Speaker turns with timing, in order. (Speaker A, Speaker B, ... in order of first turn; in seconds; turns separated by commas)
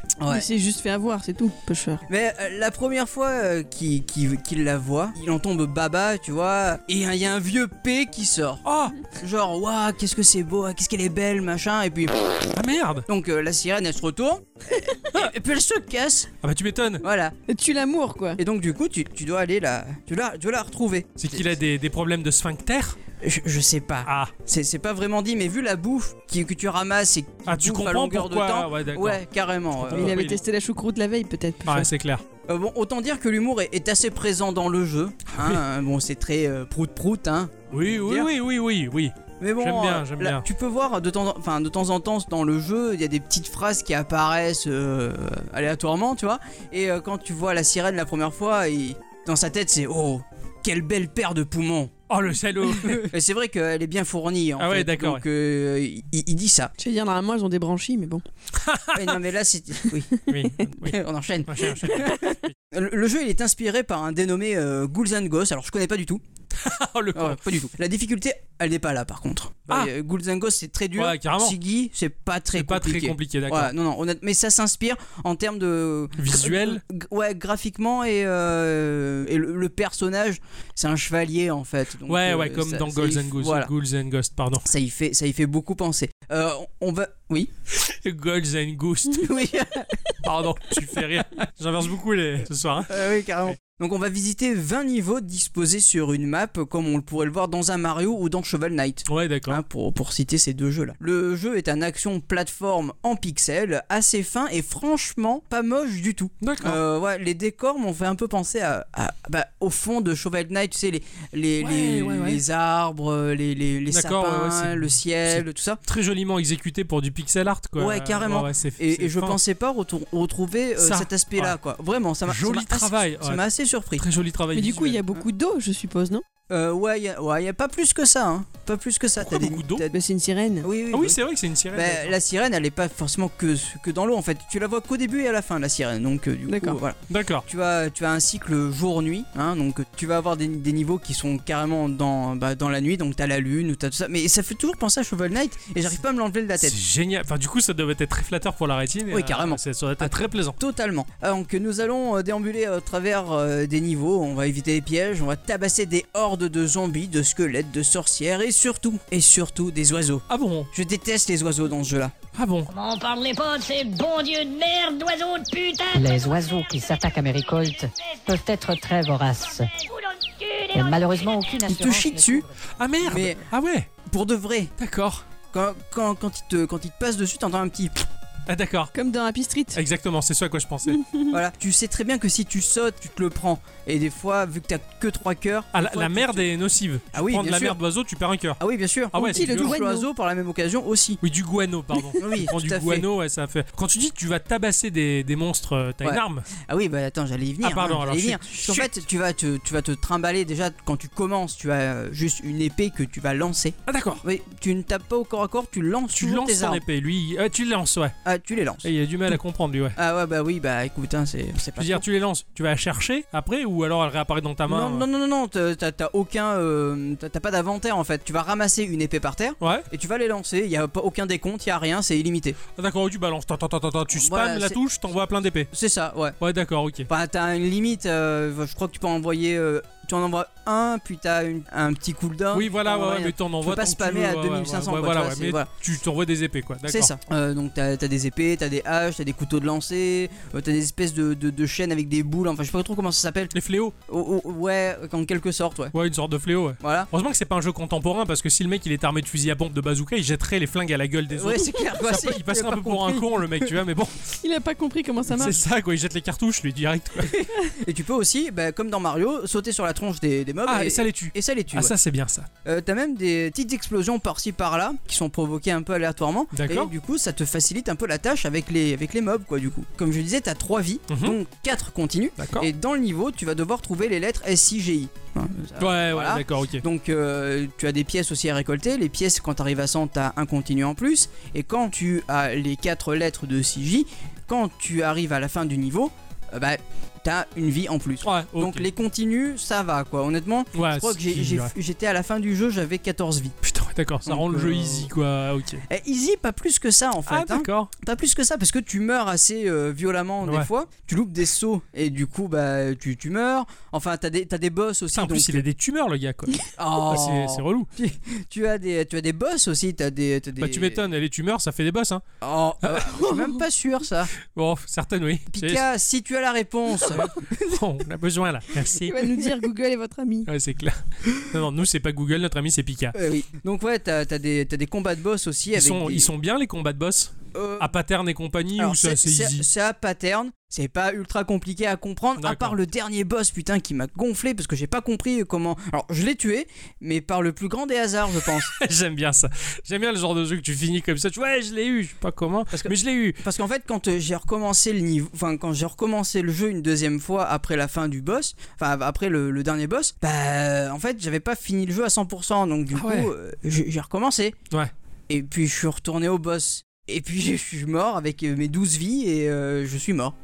Speaker A: 0.2-0.5, Speaker B: 0.3-2.0, Speaker A: 2.1-12.5, Speaker C: 8.6-9.0, Speaker C: 12.5-13.1, Speaker A: 13.1-16.3, Speaker C: 16.4-17.0, Speaker A: 17.0-17.3, Speaker B: 17.5-18.4, Speaker A: 18.4-21.4, Speaker C: 21.2-23.0, Speaker A: 23.2-30.2, Speaker C: 24.1-24.3, Speaker C: 27.5-29.2, Speaker C: 29.8-30.4, Speaker B: 29.9-31.9, Speaker C: 31.6-32.2, Speaker A: 32.5-38.3, Speaker C: 37.7-40.5, Speaker A: 39.4-51.9, Speaker C: 52.1-53.1, Speaker A: 52.9-56.7, Speaker C: 54.6-55.2, Speaker B: 56.8-58.2, Speaker C: 58.6-59.2, Speaker A: 58.9-60.1, Speaker C: 60.3-62.5, Speaker A: 60.6-66.2, Speaker C: 66.5-67.5, Speaker A: 67.1-83.7, Speaker C: 71.0-71.6, Speaker C: 72.5-73.7, Speaker C: 76.2-76.8, Speaker C: 82.1-84.7, Speaker A: 84.6-87.5, Speaker C: 87.7-89.4, Speaker A: 89.1-90.0, Speaker C: 90.2-93.5, Speaker A: 92.9-115.8, Speaker C: 99.1-99.6, Speaker C: 106.4-106.8, Speaker C: 111.6-112.4, Speaker C: 113.9-119.4, Speaker A: 117.8-124.0, Speaker C: 120.8-121.5, Speaker C: 122.3-123.4, Speaker C: 124.0-125.0, Speaker B: 124.5-126.2, Speaker A: 126.5-129.9, Speaker C: 129.2-129.8, Speaker B: 129.9-130.7, Speaker A: 130.6-131.2, Speaker C: 130.9-132.1, Speaker A: 131.7-146.8, Speaker B: 136.5-136.8, Speaker C: 137.1-137.5, Speaker C: 146.6-150.6, Speaker A: 149.1-162.1, Speaker C: 160.3-160.7, Speaker C: 162.3-162.7, Speaker D: 162.7-166.1, Speaker E: 165.9-169.7, Speaker D: 169.7-171.5, Speaker E: 170.7-172.5, Speaker A: 171.7-172.5, Speaker C: 172.8-173.9, Speaker A: 173.0-173.5, Speaker A: 174.0-174.7, Speaker C: 174.8-175.2, Speaker A: 175.5-178.1, Speaker C: 178.5-178.9, Speaker B: 178.9-179.8, Speaker C: 179.7-181.0, Speaker B: 180.9-181.4, Speaker A: 181.3-186.5, Speaker C: 185.7-188.6, Speaker A: 187.1-187.8, Speaker A: 188.6-191.2, Speaker C: 189.1-189.8, Speaker B: 189.2-190.1, Speaker C: 191.2-196.5, Speaker A: 192.2-193.1, Speaker A: 196.0-206.8, Speaker C: 197.6-198.9, Speaker C: 203.9-204.2, Speaker C: 206.1-208.1, Speaker A: 208.2-209.4, Speaker C: 208.8-210.0, Speaker A: 209.9-212.0, Speaker C: 211.8-215.1, Speaker A: 214.7-222.6, Speaker C: 219.6-219.8, Speaker C: 222.8-225.7, Speaker A: 224.1-224.8, Speaker A: 225.7-226.4, Speaker C: 226.4-227.1, Speaker A: 227.1-235.7, Speaker C: 232.5-237.1, Speaker A: 236.8-243.5, Speaker C: 243.5-243.9, Speaker A: 244.1-245.9, Speaker C: 245.9-254.3, Speaker A: 246.8-247.1, Speaker A: 251.3-253.7, Speaker B: 254.4-255.6, Speaker C: 255.3-257.3, Speaker A: 257.2-261.9, Speaker C: 260.6-262.5, Speaker A: 262.6-293.6, Speaker C: 266.5-266.9, Speaker C: 271.1-271.4, Speaker C: 272.4-272.7, Speaker C: 275.8-276.8, Speaker C: 288.2-288.9, Speaker C: 290.8-291.7, Speaker C: 293.6-295.8, Speaker A: 294.2-295.1, Speaker A: 295.9-305.6, Speaker C: 297.3-297.9, Speaker C: 300.4-300.7, Speaker C: 305.1-307.9, Speaker A: 306.8-311.0, Speaker C: 310.6-312.2, Speaker A: 312.4-314.3, Speaker B: 313.1-313.6, Speaker C: 314.5-315.8, Speaker A: 315.5-317.3, Speaker C: 317.1-319.5, Speaker B: 319.0-320.5, Speaker C: 320.5-323.1, Speaker A: 323.1-326.3, Speaker C: 325.8-329.6, Speaker A: 327.5-327.9, Speaker A: 328.8-338.7, Speaker C: 332.4-332.8, Speaker C: 338.6-343.4, Speaker A: 342.7-354.6, Speaker C: 352.9-353.3, Speaker A: 355.3-360.3